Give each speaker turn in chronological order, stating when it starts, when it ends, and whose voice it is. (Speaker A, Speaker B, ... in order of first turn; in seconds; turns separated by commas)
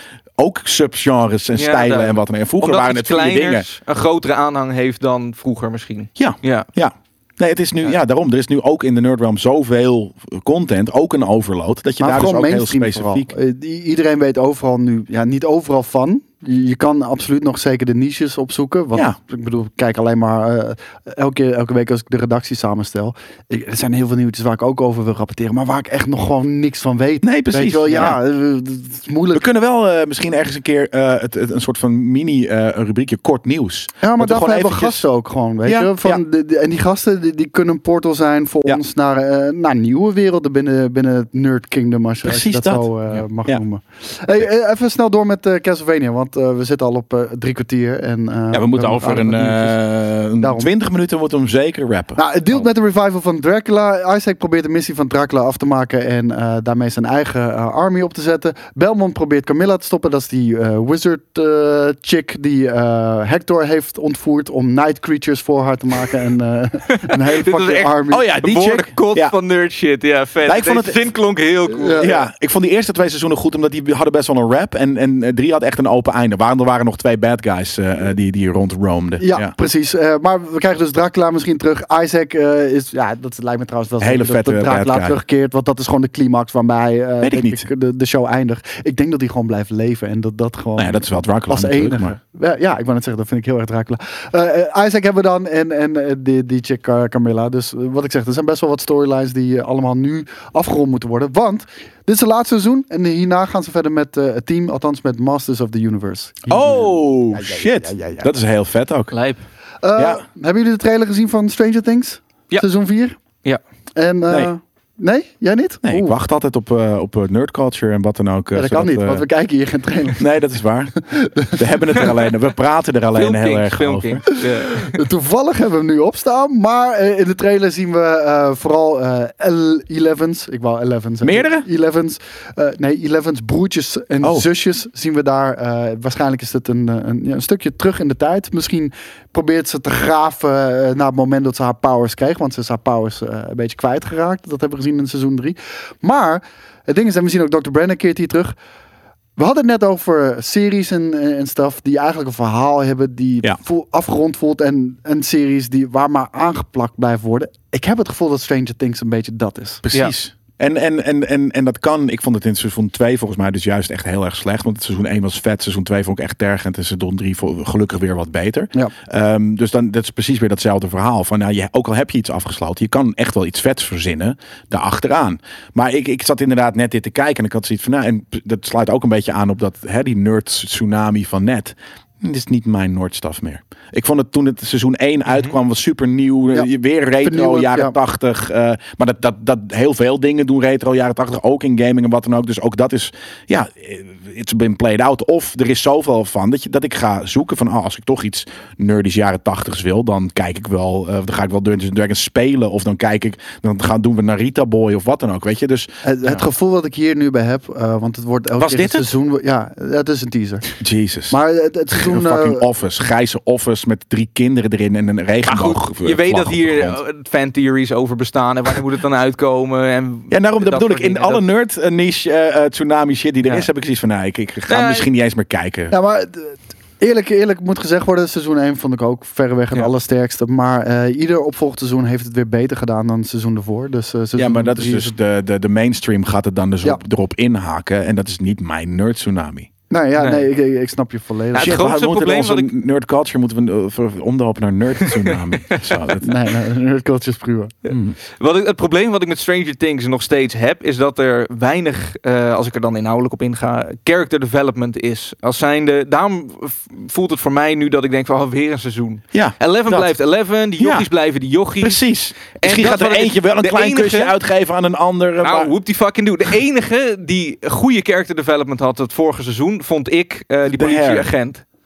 Speaker A: 0.4-3.6, Speaker B: 1.6-6.7, Speaker A: 6.2-13.3, Speaker C: 12.0-29.4, Speaker A: 27.2-28.2, Speaker A: 29.3-35.0, Speaker C: 34.0-49.8, Speaker A: 35.6-36.2, Speaker A: 42.2-42.9, Speaker A: 48.5-52.6, Speaker C: 50.4-50.7, Speaker C: 52.1-68.2, Speaker B: 66.9-72.1, Speaker A: 68.1-69.3, Speaker A: 70.4-71.0, Speaker C: 71.7-72.2, Speaker A: 72.0-79.5, Speaker C: 79.2-108.3, Speaker A: 84.0-85.2, Speaker A: 87.2-87.7, Speaker A: 90.8-92.2, Speaker A: 106.5-109.1, Speaker B: 109.1-109.4, Speaker C: 109.8-113.2, Speaker A: 110.0-110.2, Speaker C: 114.0-116.2, Speaker A: 115.8-119.2, Speaker C: 118.5-120.3, Speaker A: 120.2-124.2, Speaker C: 121.0-122.1, Speaker B: 123.2-125.0, Speaker C: 124.7-148.6, Speaker A: 131.2-131.7, Speaker C: 149.4-159.8, Speaker A: 159.8-205.9, Speaker C: 187.2-187.9, Speaker C: 206.0-210.7, Speaker A: 208.6-209.1, Speaker A: 210.8-211.4, Speaker C: 211.3-212.7, Speaker A: 211.9-217.0, Speaker B: 215.5-221.4, Speaker A: 220.3-225.9, Speaker B: 224.7-225.1, Speaker C: 225.9-235.1, Speaker A: 234.3-239.7, Speaker C: 239.9-241.7, Speaker B: 240.2-240.5, Speaker B: 241.5-242.7, Speaker A: 241.6-246.3, Speaker B: 245.0-245.9, Speaker C: 246.2-247.7, Speaker B: 247.8-262.0, Speaker A: 247.9-248.2, Speaker A: 259.3-260.1, Speaker A: 260.8-261.1, Speaker A: 261.8-265.7, Speaker B: 262.5-264.3, Speaker B: 265.4-271.6, Speaker A: 270.7-271.3